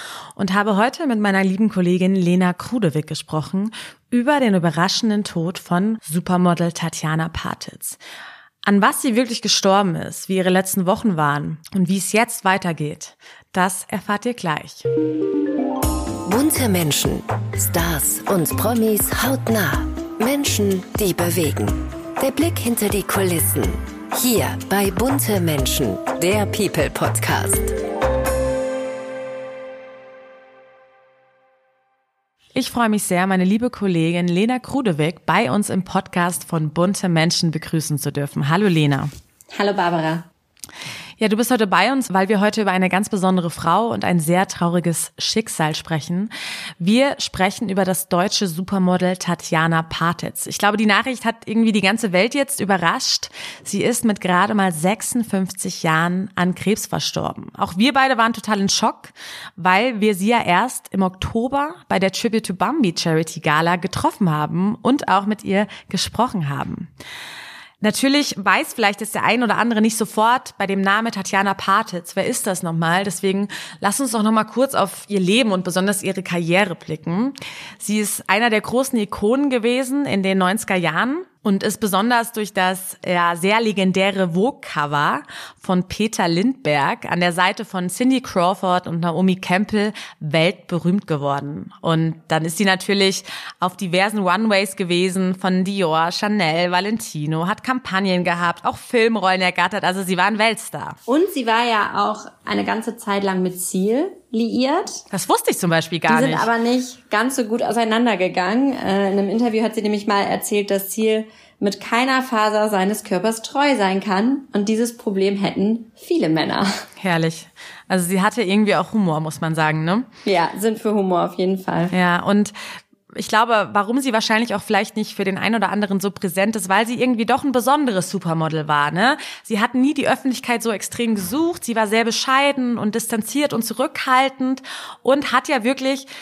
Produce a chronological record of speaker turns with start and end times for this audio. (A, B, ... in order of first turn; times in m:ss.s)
0:00.4-0:08.0 A
0:08.6-0:14.9 A
0:16.3-0:27.7 B
0:32.6-0:39.1 A
0:39.5-0:40.3 C
0:41.2-1:06.9 A
1:07.8-1:41.0 A
1:41.1-1:45.0 C
1:45.1-1:46.5 A
1:46.1-1:56.7 C
1:57.0-2:00.1 A
2:00.3-2:02.0 C
2:01.9-2:02.5 A
2:03.1-2:16.1 A